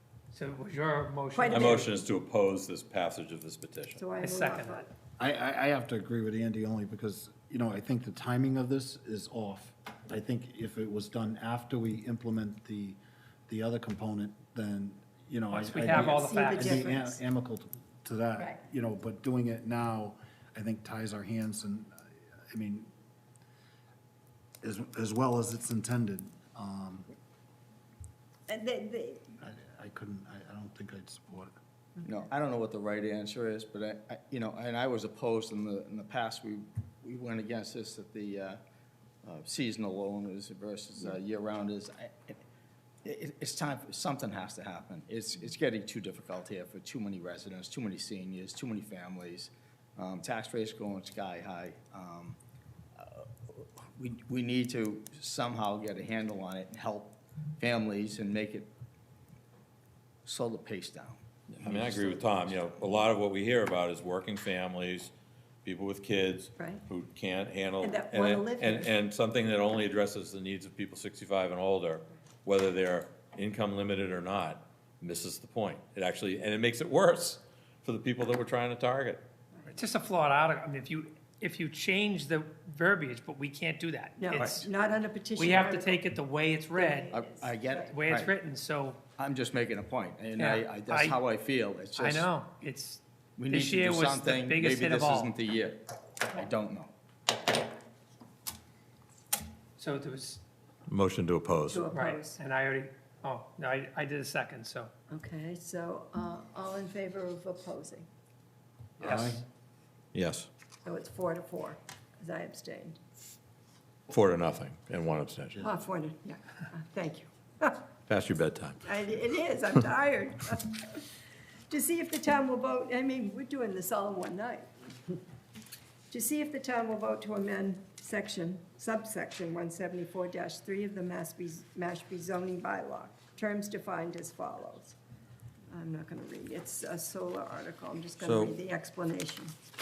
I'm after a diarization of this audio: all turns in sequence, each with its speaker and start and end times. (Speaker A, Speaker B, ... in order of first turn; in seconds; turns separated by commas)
Speaker A: 0.3-1.9, Speaker B: 1.3-1.9, Speaker C: 1.5-4.0, Speaker B: 4.0-4.9, Speaker A: 4.2-4.9, Speaker D: 5.2-22.0, Speaker A: 15.5-16.9, Speaker B: 15.8-17.2, Speaker D: 22.5-22.9, Speaker D: 24.6-27.1, Speaker B: 28.5-29.3, Speaker D: 29.4-31.5, Speaker E: 32.0-38.6, Speaker E: 39.2-42.4, Speaker E: 43.0-52.4, Speaker E: 53.0-58.7, Speaker E: 60.2-62.6, Speaker C: 61.6-65.1, Speaker C: 65.6-79.2, Speaker B: 66.6-66.8, Speaker B: 67.8-68.9, Speaker A: 79.7-84.7, Speaker B: 84.2-86.0, Speaker A: 85.4-87.1, Speaker B: 86.7-88.0, Speaker E: 87.1-88.3, Speaker A: 87.9-89.0, Speaker E: 89.2-92.3, Speaker A: 90.4-91.2, Speaker A: 92.0-95.3, Speaker E: 93.4-96.9, Speaker A: 99.8-100.4, Speaker C: 100.9-101.8, Speaker B: 101.7-102.4, Speaker A: 101.9-104.9, Speaker B: 105.1-108.1, Speaker A: 109.0-109.4, Speaker C: 110.1-110.5, Speaker B: 110.8-113.0, Speaker C: 114.1-115.7, Speaker B: 115.6-117.8, Speaker C: 118.1-118.8, Speaker B: 118.8-121.0, Speaker B: 121.7-124.7, Speaker B: 126.1-134.9, Speaker B: 135.7-139.6, Speaker C: 138.2-138.6